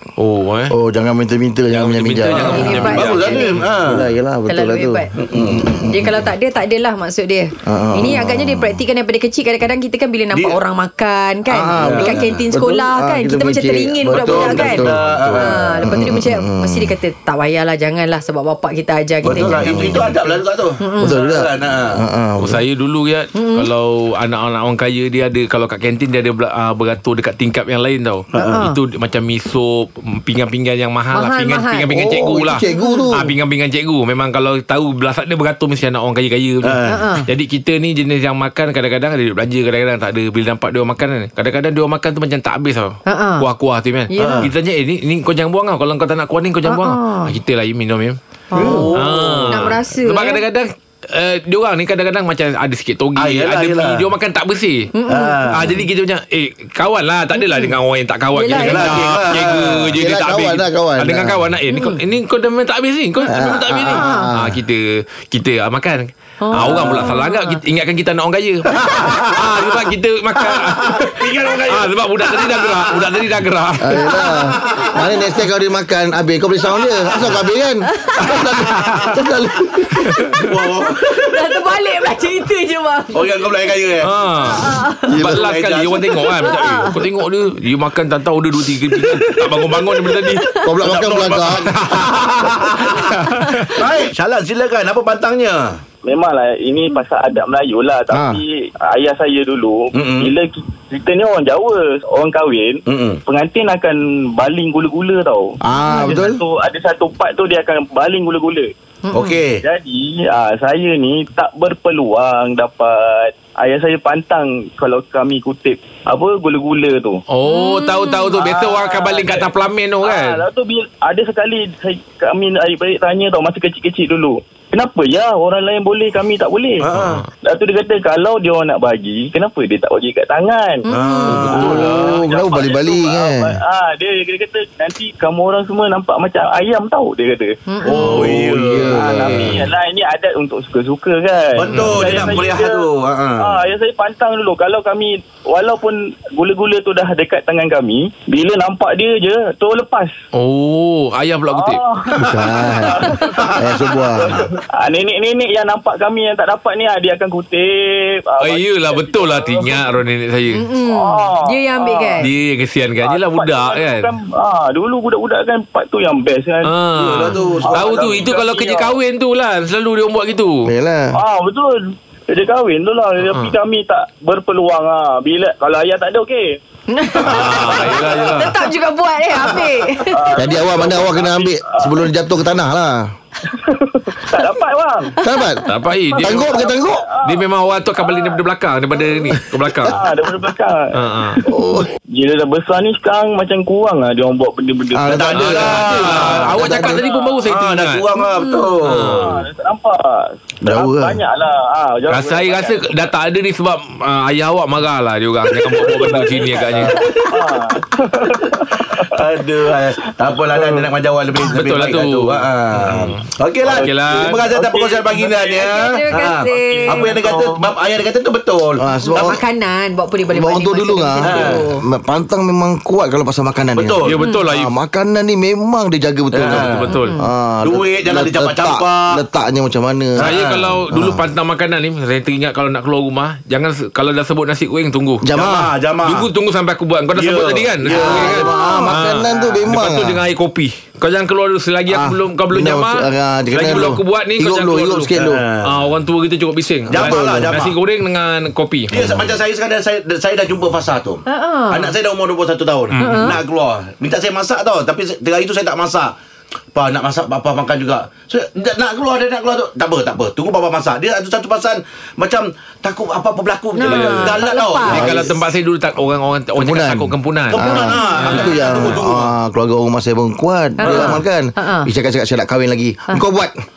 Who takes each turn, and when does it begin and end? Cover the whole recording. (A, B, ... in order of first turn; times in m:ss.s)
0:00.2-0:00.7 A
0:00.7-0:06.2 B
0:01.7-0:03.5 A
0:02.3-0:03.6 C
0:02.9-0:04.1 D
0:04.5-0:05.1 C
0:05.2-0:05.8 D
0:05.8-0:21.2 C
0:07.6-0:08.8 B
0:10.3-0:10.6 D
0:11.5-0:16.9 B
0:11.8-0:12.4 D
0:14.1-0:15.6 D
0:19.2-0:22.0 D
0:19.3-0:20.1 B
0:21.0-0:22.6 B
0:22.4-0:54.9 A
0:23.3-0:23.7 C
0:28.3-0:28.6 D
0:28.3-0:28.8 C
0:31.1-0:31.9 C
0:31.9-0:33.3 B
0:32.7-0:33.1 C
0:36.6-0:37.1 D
0:36.9-0:37.3 C
0:43.0-0:43.4 C
0:44.1-0:44.5 C
0:44.2-0:44.5 D
0:46.6-0:47.3 C
0:48.5-0:50.4 C
0:48.5-0:49.7 D
0:53.2-0:54.0 D
0:54.9-0:55.6 C
0:55.1-0:55.8 D
0:55.5-1:14.2 A
0:57.4-0:57.7 C
0:58.3-0:59.1 C
0:58.6-0:59.9 D
0:59.9-1:01.4 B
1:01.7-1:02.0 C
1:03.2-1:04.6 B
1:03.9-1:04.3 C
1:06.4-1:07.6 C
1:06.6-1:07.1 B
1:08.7-1:13.2 D
1:13.8-1:20.2 B
1:14.2-1:15.1 D
1:16.7-1:17.4 D
1:18.2-1:19.2 D
1:20.2-1:20.4 A
1:20.4-1:21.4 D
1:21.0-1:23.3 C
1:23.1-1:24.6 D
1:24.0-1:30.5 A
1:24.4-1:25.2 C
1:25.1-1:26.7 D
1:25.1-1:25.4 B
1:26.2-1:27.0 C
1:29.2-1:30.1 D
1:30.3-1:30.7 C
1:30.6-1:32.0 B
1:30.8-1:35.8 D
1:31.7-1:33.8 A
1:36.0-1:48.7 E
1:38.1-1:38.4 B
1:39.9-1:40.3 D
1:42.9-1:43.2 D
1:45.6-1:46.4 B
1:49.0-1:49.4 C
1:49.1-1:49.6 D
1:49.6-1:57.2 E
1:57.3-2:00.4 A
1:57.4-1:58.3 C
1:58.3-1:59.5 E
2:00.0-2:06.9 E
2:06.8-2:07.2 D
2:06.9-2:07.3 A
2:07.4-2:18.2 E
2:10.8-2:11.5 C
2:10.9-2:11.9 D
2:11.3-2:12.2 A
2:11.4-2:13.6 B
2:17.7-2:18.2 C
2:17.8-2:19.6 D
2:18.0-2:19.6 A
2:18.7-2:19.1 B
2:18.8-2:22.8 E
2:21.5-2:23.6 D
2:21.7-2:22.5 A
2:23.4-2:30.1 E
2:30.3-2:31.8 A
2:31.5-2:39.8 E
2:32.2-2:34.4 B
2:33.4-2:34.0 D
2:38.4-2:40.6 A
2:40.5-2:42.2 C
2:40.8-2:42.3 E
2:42.2-2:44.1 A
2:43.0-2:46.7 E
2:46.6-2:50.7 A
2:47.0-2:48.2 D
2:47.6-2:49.0 E
2:50.6-2:51.1 B
2:51.1-2:56.6 E
2:53.2-2:53.5 A
2:56.9-2:57.4 C
2:57.1-2:57.7 D
2:57.1-2:58.4 E
2:57.2-2:58.6 A
2:58.2-3:00.2 C
3:00.0-3:02.1 E
3:00.4-3:03.1 B
3:03.5-3:05.2 E
3:05.2-3:05.6 B
3:05.6-3:06.6 A
3:06.1-3:08.4 E
3:06.2-3:07.0 B
3:07.2-3:10.0 A
3:09.8-3:11.5 E
3:10.9-3:11.4 A
3:11.5-3:11.9 B
3:12.1-3:17.4 E
3:14.9-3:17.0 B
3:15.1-3:16.5 D
3:15.3-3:18.0 A
3:17.5-3:19.3 D
3:18.2-3:18.8 C
3:18.8-3:19.4 A
3:18.9-3:23.1 E
3:20.6-3:21.2 B
3:22.1-3:27.2 A
3:25.6-3:29.1 E
3:26.5-3:27.1 D
3:29.0-3:38.8 D
3:31.4-3:34.5 A
3:33.6-3:37.6 E
3:35.6-3:37.2 C
3:38.8-3:39.4 B
3:39.0-3:41.8 C
3:40.3-3:51.2 B
3:41.2-3:41.6 D
3:43.8-3:44.2 D
3:44.0-3:44.7 A
3:44.2-3:44.5 C
3:46.3-3:46.9 D
3:46.4-3:47.1 A
3:46.9-3:47.3 C
3:47.6-3:49.2 D
3:50.2-3:50.8 D
3:50.2-3:55.3 A
3:55.2-3:55.7 B
3:55.3-3:56.3 D
3:56.0-4:09.0 A
3:57.1-3:59.4 D
3:57.8-4:00.2 B
4:01.9-4:05.4 B
4:05.2-4:05.8 D
4:06.9-4:07.7 D
4:06.9-4:07.6 B
4:08.9-4:16.1 D
4:11.3-4:11.9 C
4:12.9-4:13.4 A
4:13.0-4:13.4 C
4:16.7-4:25.4 D
4:23.8-4:25.1 C
4:23.8-4:28.9 A
4:24.9-4:25.3 B
4:26.6-4:33.6 B
4:27.5-4:29.3 D
4:27.7-4:28.6 C
4:30.8-4:31.9 C
4:30.8-4:31.2 D